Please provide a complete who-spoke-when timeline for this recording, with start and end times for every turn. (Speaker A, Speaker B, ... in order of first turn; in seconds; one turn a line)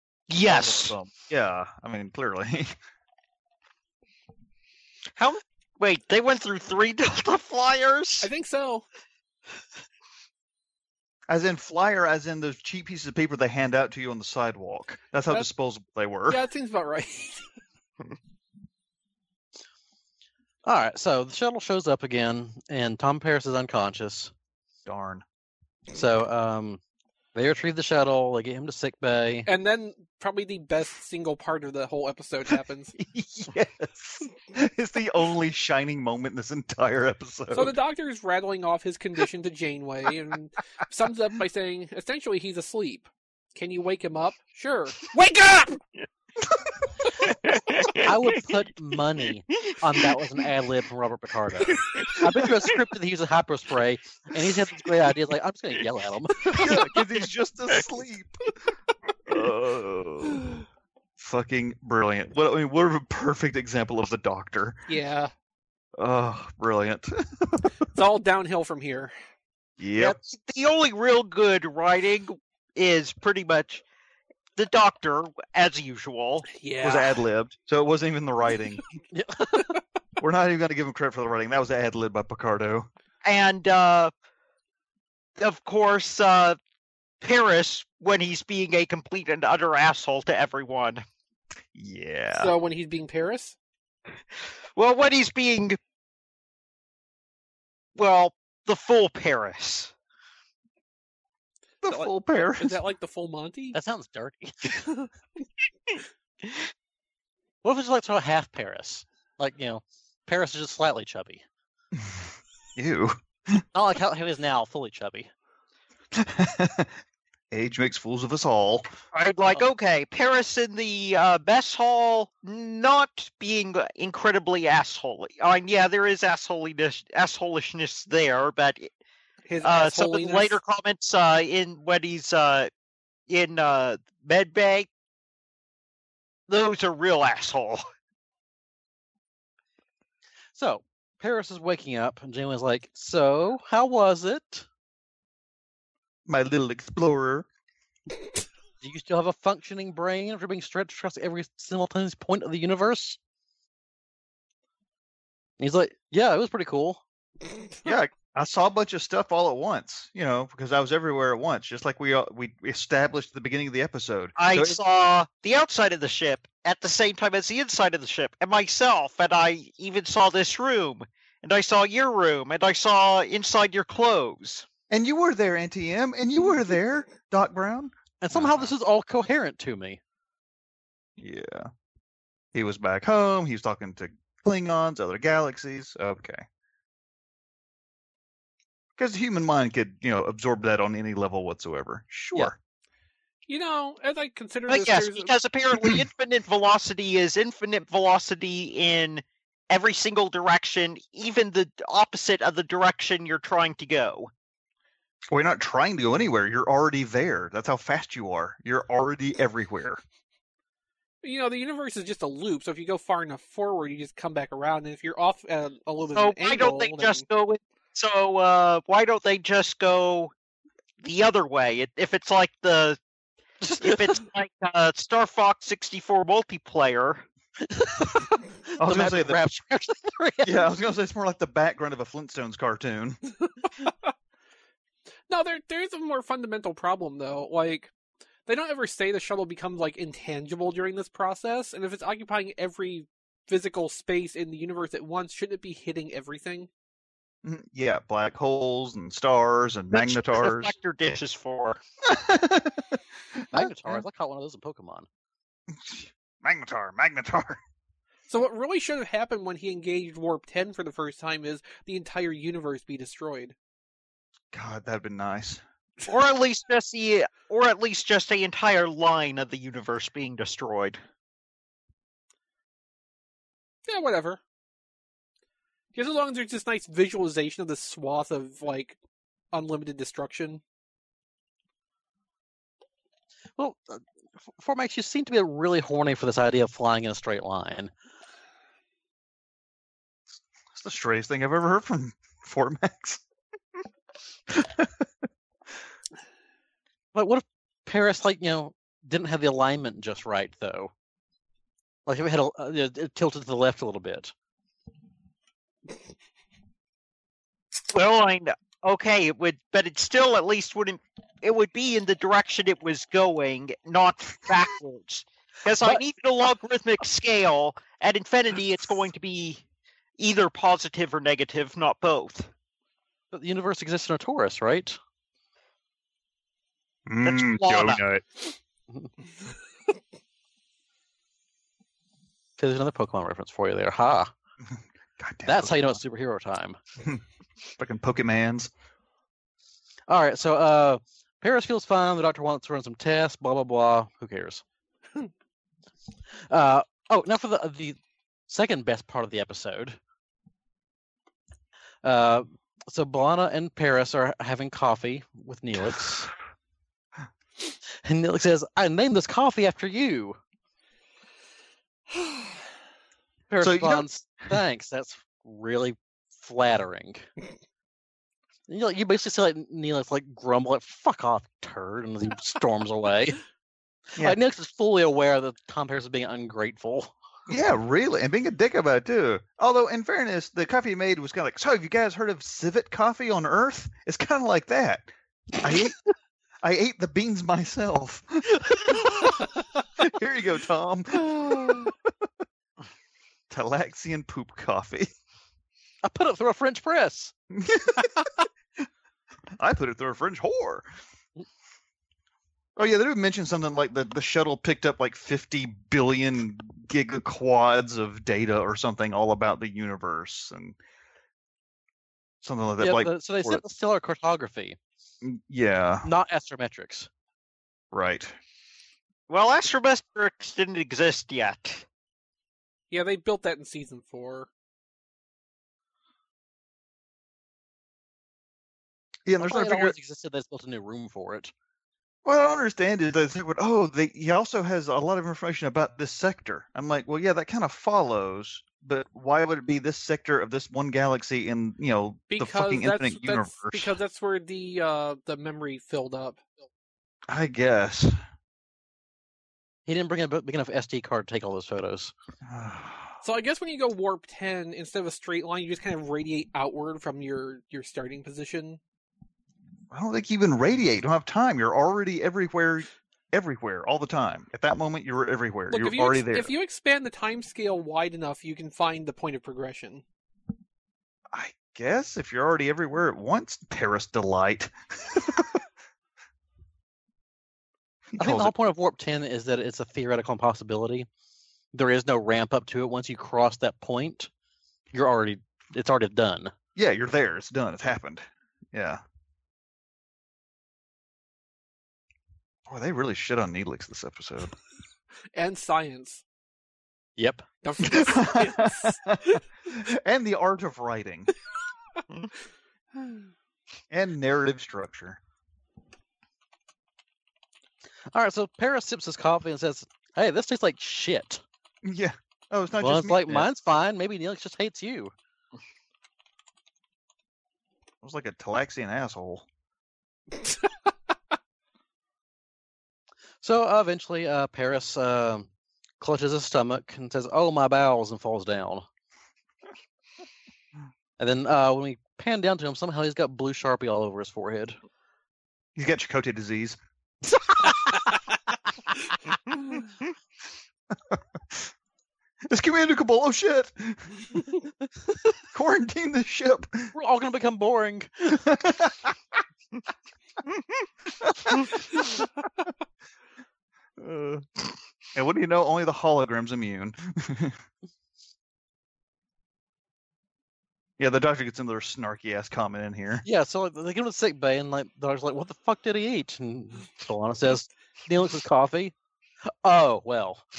Speaker A: 0.3-0.9
Speaker B: 0.4-2.8
Speaker A: 5.2-8.3
Speaker C: 8.2-8.9
Speaker B: 11.3-16.4
Speaker C: 16.3-17.5
Speaker D: 20.6-24.3
Speaker B: 24.9-25.2
Speaker D: 25.9-26.8
Speaker D: 27.3-29.5
Speaker C: 29.5-33.0
Speaker B: 33.0-37.8
Speaker C: 37.5-45.0
Speaker A: 45.1-45.8
Speaker A: 47.5-48.1
Speaker D: 48.0-56.5
Speaker B: 56.5-58.4
Speaker B: 59.3-60.5
Speaker B: 61.2-64.8
Speaker C: 64.9-65.3
Speaker B: 66.0-67.7
Speaker C: 68.0-69.1
Speaker B: 69.8-70.2
Speaker A: 70.0-73.8
Speaker A: 74.6-76.5
Speaker C: 76.5-77.2
Speaker B: 76.8-79.0
Speaker D: 79.1-79.7
Speaker B: 80.2-82.9
Speaker A: 83.2-84.1
Speaker A: 85.4-86.6
Speaker A: 87.2-91.0
Speaker B: 91.8-92.5
Speaker C: 92.4-93.6
Speaker A: 94.8-95.8
Speaker A: 98.0-99.9
Speaker B: 101.8-102.8
Speaker C: 101.9-103.8
Speaker D: 103.7-104.7
Speaker D: 107.6-111.4
Speaker B: 112.8-113.6
Speaker D: 113.7-115.3
Speaker B: 116.1-116.9
Speaker B: 117.5-118.9
Speaker A: 119.1-128.9
Speaker C: 129.5-130.6
Speaker A: 129.6-132.7
Speaker A: 133.3-134.9
Speaker A: 136.5-137.8
Speaker D: 140.6-144.7
Speaker B: 146.3-147.5
Speaker D: 148.8-153.2
Speaker D: 155.6-157.0
Speaker B: 157.8-164.8
Speaker A: 164.4-174.7
Speaker B: 174.9-178.7
Speaker D: 178.2-180.0
Speaker B: 181.2-181.7
Speaker B: 182.5-186.5
Speaker B: 189.0-192.6
Speaker C: 193.5-195.3
Speaker A: 194.7-204.3
Speaker B: 205.3-210.0
Speaker C: 211.2-217.3
Speaker A: 216.1-220.3
Speaker A: 221.0-223.0
Speaker A: 223.6-227.2
Speaker D: 223.6-224.1
Speaker D: 227.7-230.7
Speaker B: 228.8-229.4
Speaker B: 230.4-233.2
Speaker C: 235.3-237.9
Speaker C: 238.5-246.7
Speaker B: 247.4-250.7
Speaker A: 249.9-251.8
Speaker B: 252.1-254.0
Speaker D: 253.5-255.1
Speaker B: 255.7-257.6
Speaker C: 258.3-263.6
Speaker B: 264.5-265.6
Speaker A: 266.1-271.0
Speaker C: 273.9-274.4
Speaker C: 275.9-279.0
Speaker C: 279.5-280.6
Speaker D: 283.6-284.0
Speaker D: 284.6-287.9
Speaker B: 290.7-293.2
Speaker B: 294.5-295.1
Speaker D: 297.1-300.9
Speaker D: 302.1-304.3
Speaker A: 307.9-319.6
Speaker A: 320.2-322.5
Speaker D: 323.3-325.0
Speaker B: 327.1-328.2
Speaker A: 327.2-328.0
Speaker D: 332.6-334.3
Speaker B: 335.2-336.0
Speaker D: 335.5-336.8
Speaker B: 337.8-338.7
Speaker D: 340.1-344.6
Speaker D: 346.5-348.0
Speaker D: 348.5-350.0
Speaker D: 352.0-356.3
Speaker D: 358.0-360.4
Speaker D: 363.5-367.3
Speaker B: 363.6-364.1
Speaker D: 368.7-373.4
Speaker D: 374.2-377.1
Speaker B: 377.5-386.0
Speaker B: 386.6-389.3
Speaker B: 390.0-391.9
Speaker B: 393.5-395.1
Speaker D: 396.0-397.3
Speaker B: 397.5-398.3
Speaker B: 399.6-400.9
Speaker B: 402.8-410.8
Speaker B: 412.4-413.6
Speaker D: 412.8-414.8
Speaker B: 415.2-416.1
Speaker D: 416.0-417.1
Speaker B: 417.9-418.4
Speaker A: 419.3-421.9
Speaker C: 422.9-424.5
Speaker B: 429.3-429.9
Speaker D: 429.4-431.5
Speaker B: 432.2-444.0
Speaker C: 442.3-446.4
Speaker B: 447.3-448.2
Speaker D: 449.9-452.1
Speaker B: 452.4-453.2
Speaker C: 453.2-458.8
Speaker B: 459.9-466.5
Speaker C: 465.7-470.0
Speaker B: 471.3-475.6
Speaker B: 478.1-478.5
Speaker D: 478.2-481.1
Speaker D: 481.7-484.3
Speaker D: 484.9-486.5
Speaker B: 486.8-489.0
Speaker B: 492.7-494.6
Speaker C: 495.4-496.2
Speaker D: 497.2-497.5
Speaker C: 497.6-499.0
Speaker B: 497.8-501.3
Speaker B: 503.9-505.2
Speaker D: 508.1-511.4
Speaker B: 511.8-513.5
Speaker D: 512.8-515.1
Speaker B: 518.0-519.5
Speaker D: 523.4-525.5
Speaker D: 526.0-528.9
Speaker D: 531.2-534.8
Speaker B: 535.8-537.8
Speaker B: 541.1-541.7
Speaker B: 542.5-544.4
Speaker B: 545.5-546.9
Speaker D: 547.0-548.4
Speaker B: 548.5-549.1
Speaker B: 551.2-551.7
Speaker B: 554.0-554.5
Speaker B: 555.1-557.6
Speaker B: 561.0-563.2
Speaker D: 563.2-568.9
Speaker D: 569.6-570.4